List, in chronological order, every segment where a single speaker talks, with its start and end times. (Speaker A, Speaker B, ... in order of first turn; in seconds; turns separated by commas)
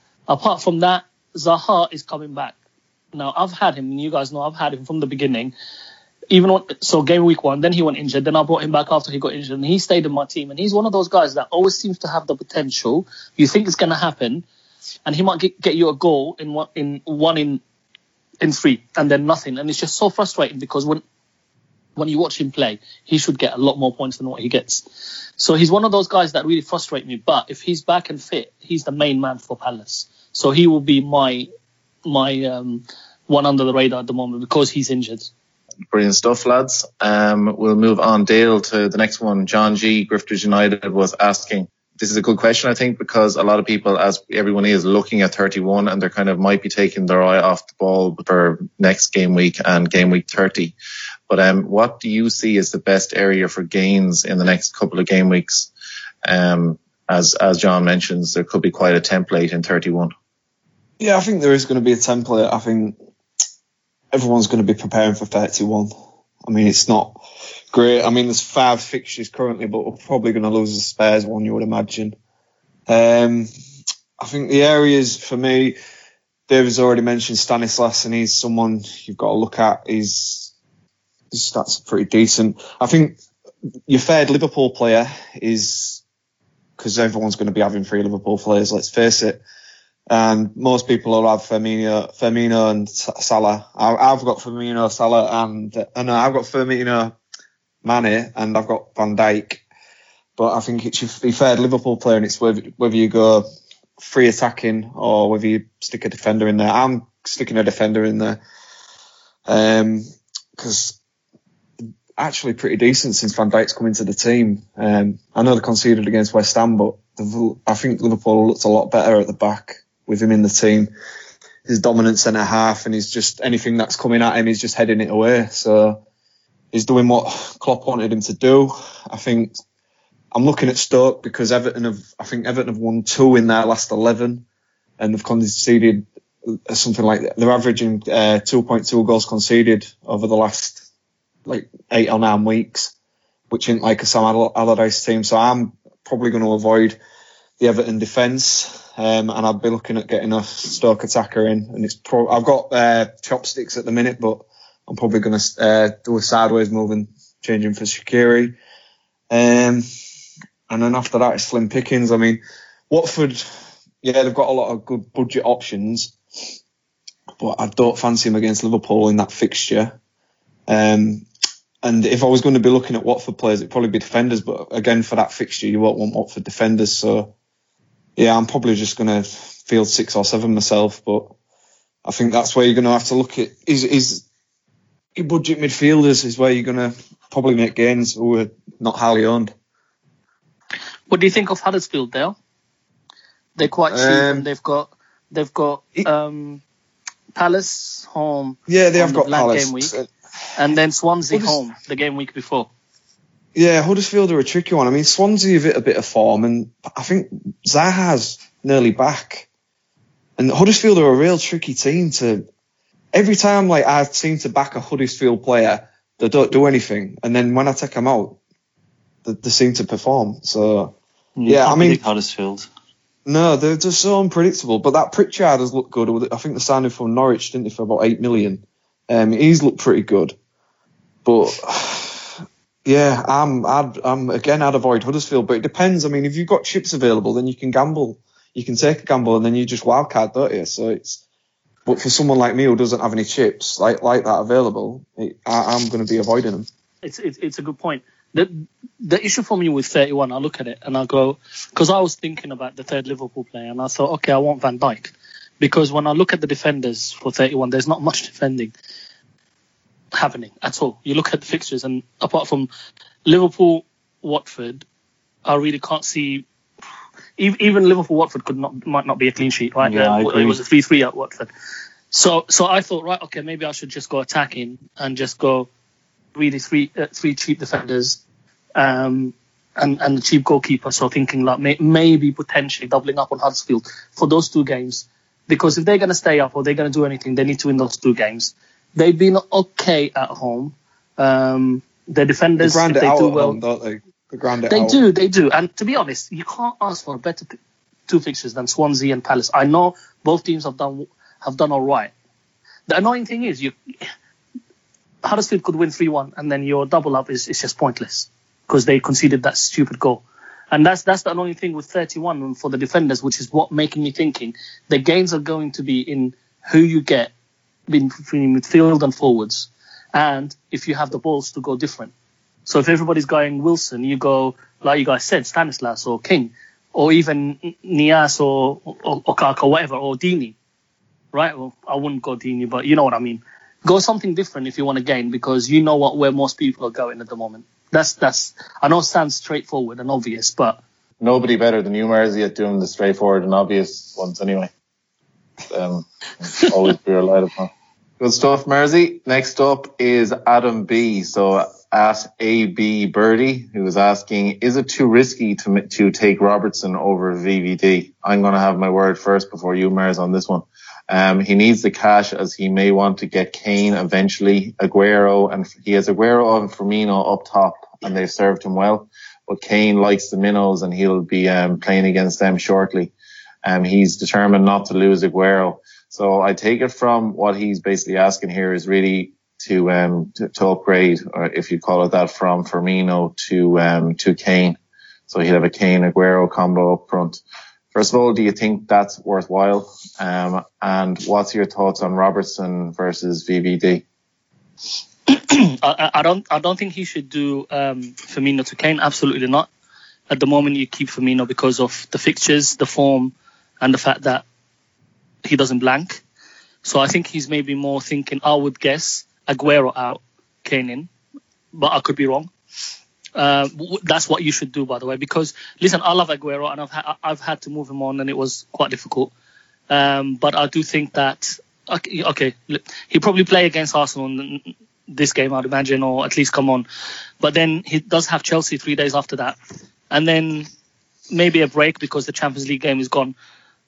Speaker A: 0.3-2.6, Speaker A: 3.1-5.5, Speaker A: 6.3-14.5, Speaker A: 15.1-17.6, Speaker A: 18.4-21.0, Speaker A: 22.0-24.9, Speaker A: 25.4-31.5, Speaker A: 32.1-35.3, Speaker B: 35.9-50.8, Speaker B: 51.3-55.7, Speaker B: 56.3-60.1, Speaker C: 61.0-63.0, Speaker C: 64.1-65.9, Speaker C: 66.5-67.2, Speaker C: 67.7-72.2, Speaker C: 72.9-73.5, Speaker C: 74.2-75.8, Speaker C: 76.5-80.5, Speaker C: 81.3-83.2, Speaker C: 83.9-86.0, Speaker C: 86.8-89.4, Speaker C: 90.1-97.2, Speaker C: 97.8-99.6, Speaker C: 100.4-103.5, Speaker C: 104.0-108.4, Speaker C: 109.5-110.1, Speaker C: 110.6-111.0, Speaker C: 112.2-120.9, Speaker C: 121.7-126.0, Speaker C: 126.7-129.6, Speaker C: 130.3-134.4, Speaker C: 135.0-140.8, Speaker C: 141.5-142.9, Speaker C: 143.5-147.0, Speaker C: 147.6-158.6, Speaker C: 159.3-159.8, Speaker C: 160.7-163.4, Speaker C: 164.0-166.2, Speaker C: 167.4-170.0, Speaker C: 170.7-171.3, Speaker C: 171.8-177.3, Speaker C: 178.2-181.3, Speaker C: 182.1-184.2, Speaker C: 185.2-189.5, Speaker A: 191.1-192.4, Speaker A: 193.6-196.6, Speaker C: 193.9-194.5, Speaker A: 197.3-199.9, Speaker C: 198.7-200.1, Speaker A: 200.6-202.7, Speaker C: 201.3-201.6, Speaker C: 203.6-209.5, Speaker C: 210.4-212.5, Speaker C: 213.1-218.4, Speaker C: 219.2-220.9, Speaker D: 221.4-222.7, Speaker C: 221.5-222.0, Speaker C: 223.3-230.4, Speaker C: 231.2-241.2, Speaker C: 241.9-246.7, Speaker A: 247.0-258.7, Speaker A: 260.1-262.7, Speaker A: 263.3-264.9, Speaker A: 265.4-266.5, Speaker A: 267.4-271.5, Speaker D: 269.8-270.6, Speaker A: 272.1-275.7, Speaker A: 276.4-278.2, Speaker A: 278.8-293.6, Speaker C: 292.6-295.0, Speaker A: 294.7-297.5, Speaker A: 298.1-302.1, Speaker A: 302.9-303.7, Speaker A: 305.2-317.3, Speaker A: 317.9-322.1, Speaker A: 322.7-330.6, Speaker A: 331.3-340.8, Speaker B: 341.2-344.7, Speaker B: 345.7-373.1, Speaker B: 373.6-384.8, Speaker B: 385.3-387.4, Speaker B: 387.9-394.1, Speaker A: 395.3-399.7, Speaker A: 400.3-404.4, Speaker A: 405.4-406.2, Speaker A: 406.9-411.1, Speaker A: 411.7-412.5, Speaker A: 413.4-419.3, Speaker A: 419.9-426.9, Speaker A: 427.4-429.6, Speaker A: 430.1-430.7, Speaker A: 431.3-433.4